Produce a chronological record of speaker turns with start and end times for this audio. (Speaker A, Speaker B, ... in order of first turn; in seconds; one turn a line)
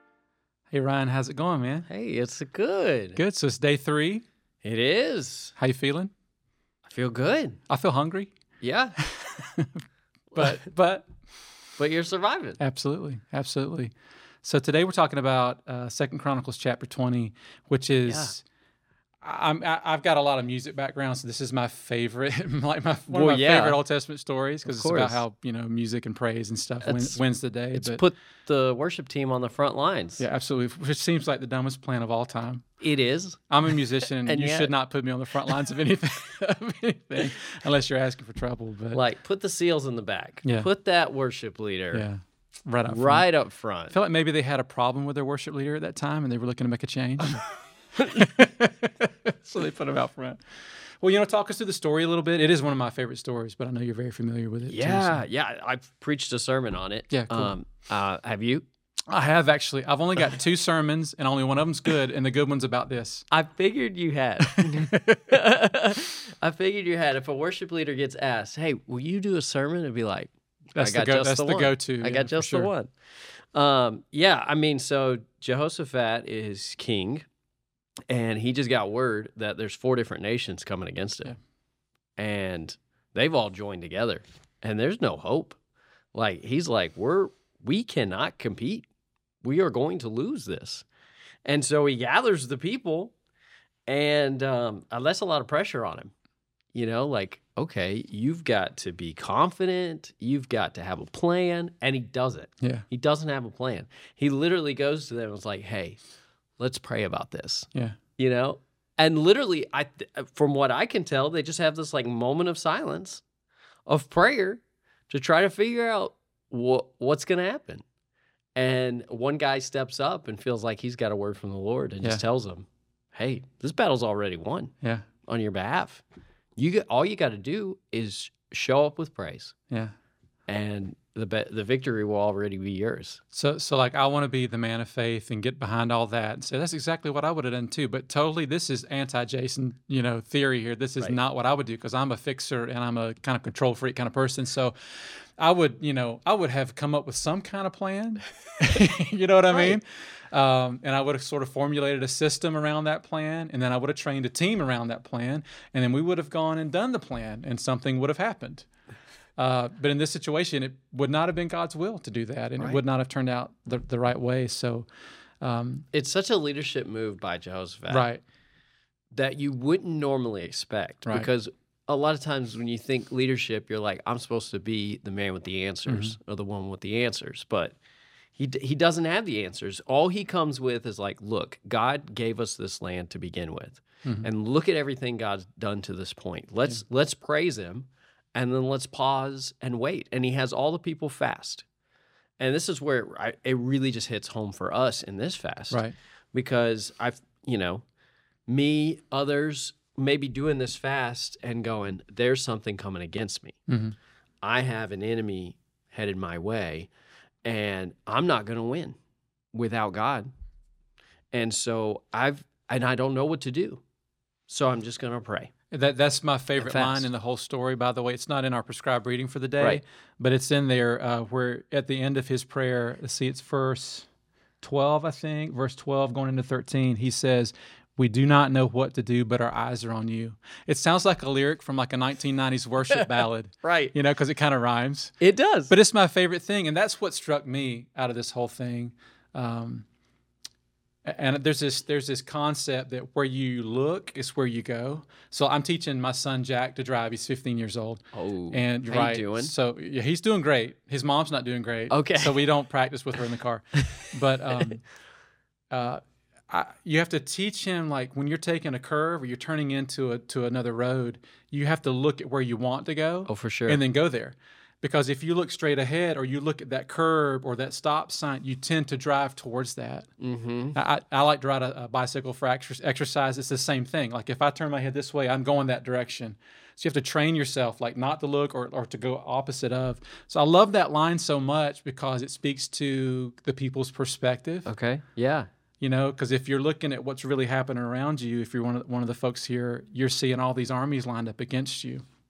Speaker A: 0.7-1.9
Speaker B: 1.9-3.2
Speaker A: 3.2-4.2
Speaker B: 4.6-5.5
Speaker A: 5.6-6.1
Speaker B: 6.9-7.6
Speaker A: 7.7-8.3
Speaker B: 8.6-9.0
Speaker A: 9.0-9.8
Speaker B: 10.3-10.6
Speaker A: 10.3-11.1
Speaker B: 11.8-12.6
Speaker A: 12.6-13.9
Speaker A: 14.4-18.4
Speaker B: 18.1-18.3
Speaker A: 19.2-28.0
Speaker B: 23.1-23.8
Speaker B: 24.7-25.2
Speaker B: 26.8-27.2
Speaker B: 27.7-30.2
Speaker A: 30.2-32.6
Speaker B: 32.8-33.4
Speaker A: 33.5-39.0
Speaker B: 34.2-34.7
Speaker B: 38.9-42.0
Speaker A: 40.4-40.7
Speaker A: 41.9-43.2
Speaker B: 42.9-44.0
Speaker A: 43.9-47.4
Speaker A: 48.0-50.4
Speaker A: 51.0-55.2
Speaker B: 54.7-58.6
Speaker A: 57.1-57.5
Speaker A: 59.1-63.2
Speaker B: 63.3-72.9
Speaker A: 64.4-65.2
Speaker A: 70.7-72.7
Speaker B: 73.5-77.2
Speaker B: 78.1-81.3
Speaker B: 82.2-85.6
Speaker B: 86.1-88.9
Speaker B: 89.4-90.8
Speaker B: 91.5-93.1
Speaker B: 93.9-96.1
Speaker B: 96.7-106.0
Speaker B: 106.6-113.2
Speaker B: 113.9-117.8
Speaker B: 118.6-124.7
Speaker A: 124.8-125.1
Speaker B: 125.3-126.0
Speaker B: 126.6-129.6
Speaker B: 130.5-133.2
Speaker A: 133.3-158.7
Speaker A: 159.4-164.9
Speaker A: 165.4-165.9
Speaker B: 165.9-168.1
Speaker A: 167.9-168.2
Speaker B: 169.1-177.8
Speaker A: 175.9-176.2
Speaker B: 178.4-191.7
Speaker B: 192.4-195.8
Speaker A: 195.7-195.9
Speaker B: 196.3-197.8
Speaker B: 198.5-203.6
Speaker A: 203.7-204.0
Speaker B: 204.4-206.9
Speaker B: 207.4-209.0
Speaker B: 209.5-210.3
Speaker B: 211.3-213.8
Speaker B: 214.5-215.5
Speaker A: 215.7-224.1
Speaker B: 216.6-217.1
Speaker A: 224.6-235.1
Speaker B: 232.9-233.9
Speaker B: 235.2-235.7
Speaker A: 235.7-239.8
Speaker A: 241.1-248.0
Speaker B: 248.1-249.5
Speaker A: 248.5-254.8
Speaker B: 251.9-252.5
Speaker A: 255.7-270.1
Speaker B: 263.3-263.8
Speaker B: 270.2-270.8
Speaker A: 270.8-284.7
Speaker B: 284.7-285.5
Speaker A: 285.8-292.1